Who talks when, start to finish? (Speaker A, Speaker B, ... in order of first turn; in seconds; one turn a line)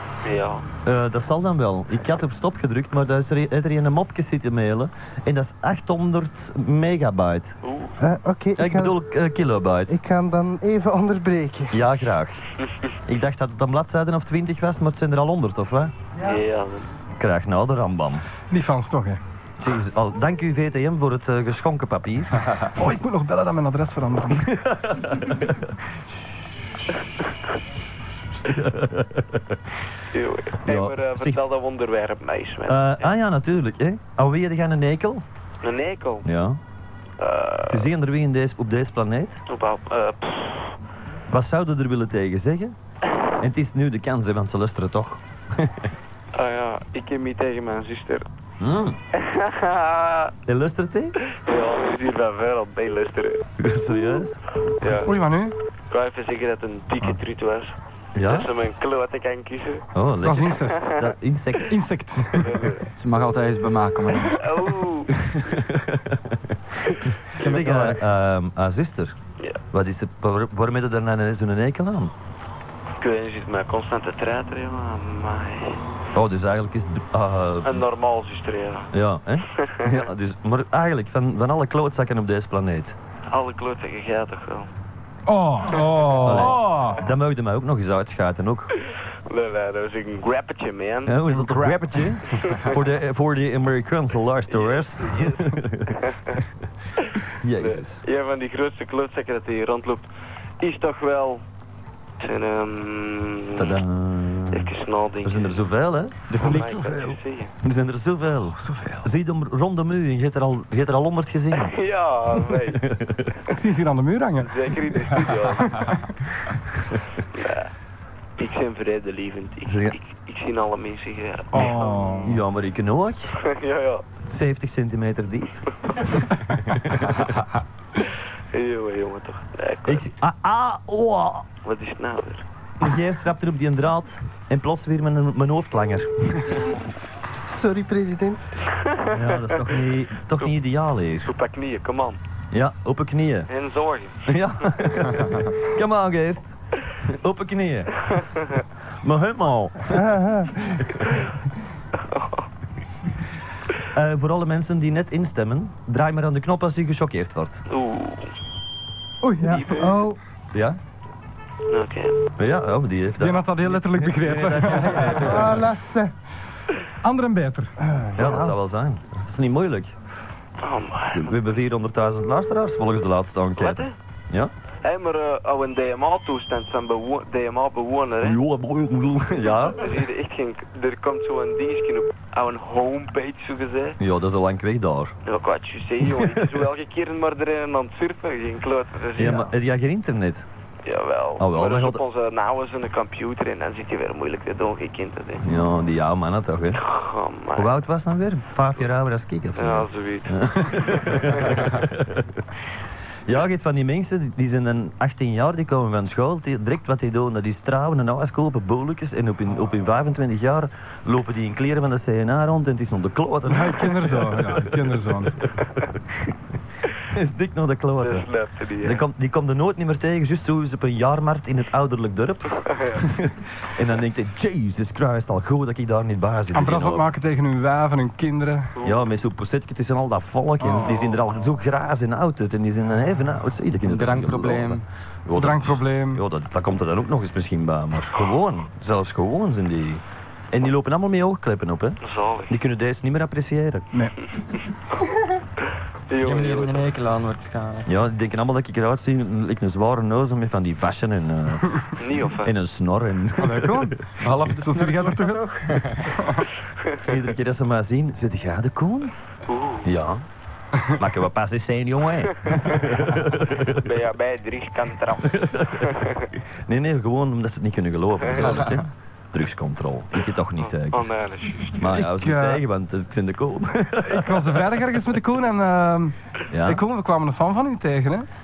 Speaker A: 0.2-0.7
Speaker B: 0.8-7.6
Speaker A: 7.6-8.0
Speaker C: 8.0-9.0
Speaker B: 8.6-10.0
Speaker C: 9.9-11.8
Speaker B: 11.7-12.5
Speaker B: 13.1-15.9
Speaker A: 16.2-16.9
Speaker B: 17.2-18.2
Speaker D: 18.5-19.2
Speaker B: 19.6-22.5
Speaker D: 22.8-24.5
Speaker B: 24.4-25.7
Speaker B: 28.4-29.6
Speaker A: 30.1-33.1
Speaker B: 30.6-31.4
Speaker B: 32.7-35.2
Speaker A: 35.6-36.3
Speaker B: 36.2-36.6
Speaker A: 37.2-37.9
Speaker B: 37.7-39.4
Speaker A: 39.5-40.8
Speaker B: 41.3-42.8
Speaker B: 43.4-45.9
Speaker A: 46.3-48.3
Speaker B: 48.6-49.0
Speaker A: 49.1-50.3
Speaker B: 50.5-51.2
Speaker A: 51.3-53.5
Speaker B: 53.6-54.4
Speaker A: 54.8-55.1
Speaker D: 55.0-55.5
Speaker A: 55.9-59.9
Speaker B: 58.1-58.5
Speaker B: 60.0-61.8
Speaker D: 60.2-61.0
Speaker D: 61.7-62.8
Speaker A: 62.4-62.9
Speaker E: 63.0-64.4
Speaker A: 64.3-65.1
Speaker B: 65.6-66.6
Speaker E: 67.4-68.0
Speaker B: 67.4-69.2
Speaker B: 69.7-72.1
Speaker A: 73.0-75.8
Speaker B: 76.1-77.8
Speaker A: 77.6-78.9
Speaker B: 78.9-83.0
Speaker A: 83.3-84.7
Speaker D: 85.3-87.0
Speaker A: 85.8-86.2
Speaker B: 86.2-88.7
Speaker A: 89.3-91.2
Speaker B: 91.1-96.0
Speaker D: 91.3-91.8
Speaker A: 94.5-96.3
Speaker B: 97.4-98.0
Speaker A: 97.6-100.1
Speaker A: 100.6-101.4
Speaker A: 102.2-103.7
Speaker B: 103.5-106.3
Speaker A: 104.5-105.7
Speaker E: 106.3-106.7
Speaker A: 106.4-107.5
Speaker D: 106.4-107.1
Speaker B: 107.6-111.8
Speaker D: 108.6-109.1
Speaker A: 111.5-112.8
Speaker B: 112.5-113.3
Speaker D: 113.5-116.0
Speaker A: 114.4-115.7
Speaker A: 117.3-117.7
Speaker A: 118.4-122.3
Speaker B: 119.7-120.0
Speaker D: 121.5-122.4
Speaker B: 122.2-123.3
Speaker A: 123.4-124.0
Speaker B: 124.2-125.6
Speaker B: 126.2-127.1
Speaker A: 128.5-130.1
Speaker B: 129.8-131.5
Speaker A: 131.6-132.5
Speaker B: 132.8-136.6
Speaker C: 137.5-138.5
Speaker A: 138.9-139.6
Speaker B: 139.1-141.3
Speaker A: 141.2-142.2
Speaker B: 142.5-143.5
Speaker A: 143.5-144.3
Speaker B: 144.3-148.2
Speaker B: 149.0-150.0
Speaker C: 149.9-150.9
Speaker A: 152.0-152.4
Speaker B: 153.8-157.7
Speaker A: 157.7-158.3
Speaker D: 159.2-159.9
Speaker C: 159.3-160.2
Speaker A: 159.6-159.9
Speaker B: 160.5-160.8
Speaker A: 161.7-162.2
Speaker B: 162.4-165.6
Speaker D: 163.2-165.4
Speaker C: 165.2-166.1
Speaker D: 167.0-167.8
Speaker C: 167.9-168.6
Speaker B: 168.2-170.0
Speaker A: 170.6-171.3
Speaker B: 171.1-174.5
Speaker A: 173.6-173.9
Speaker A: 174.8-178.4
Speaker B: 178.2-180.0
Speaker A: 179.5-184.0
Speaker B: 184.0-185.2
Speaker A: 185.2-189.5
Speaker B: 186.1-186.6
Speaker B: 189.2-190.5
Speaker A: 190.8-195.5
Speaker B: 191.4-192.0
Speaker B: 195.4-196.8
Speaker A: 196.8-197.7
Speaker B: 197.6-202.3
Speaker A: 199.6-201.7
Speaker B: 203.3-216.4
Speaker D: 213.5-215.4
Speaker B: 217.1-218.3
Speaker A: 218.0-219.0
Speaker B: 218.8-227.0
Speaker A: 222.6-223.0
Speaker D: 226.5-228.7
Speaker B: 228.8-243.9
Speaker D: 230.7-231.1
Speaker E: 233.8-234.9
Speaker D: 235.4-236.2
Speaker A: 242.0-242.5
Speaker A: 246.1-246.8
Speaker E: 246.1-247.9
Speaker B: 247.9-253.9
Speaker A: 252.0-252.6
Speaker D: 253.4-255.5
Speaker E: 254.2-256.3
Speaker B: 257.0-259.1
Speaker A: 259.5-259.9
Speaker B: 259.8-260.2
Speaker B: 260.9-263.8
Speaker A: 262.5-262.9
Speaker A: 263.6-266.3
Speaker B: 265.3-265.7
Speaker B: 266.7-271.1
Speaker E: 268.4-268.8
Speaker A: 270.6-272.0
Speaker B: 271.8-274.8
Speaker D: 271.9-272.6
Speaker D: 274.0-278.3
Speaker B: 276.5-276.8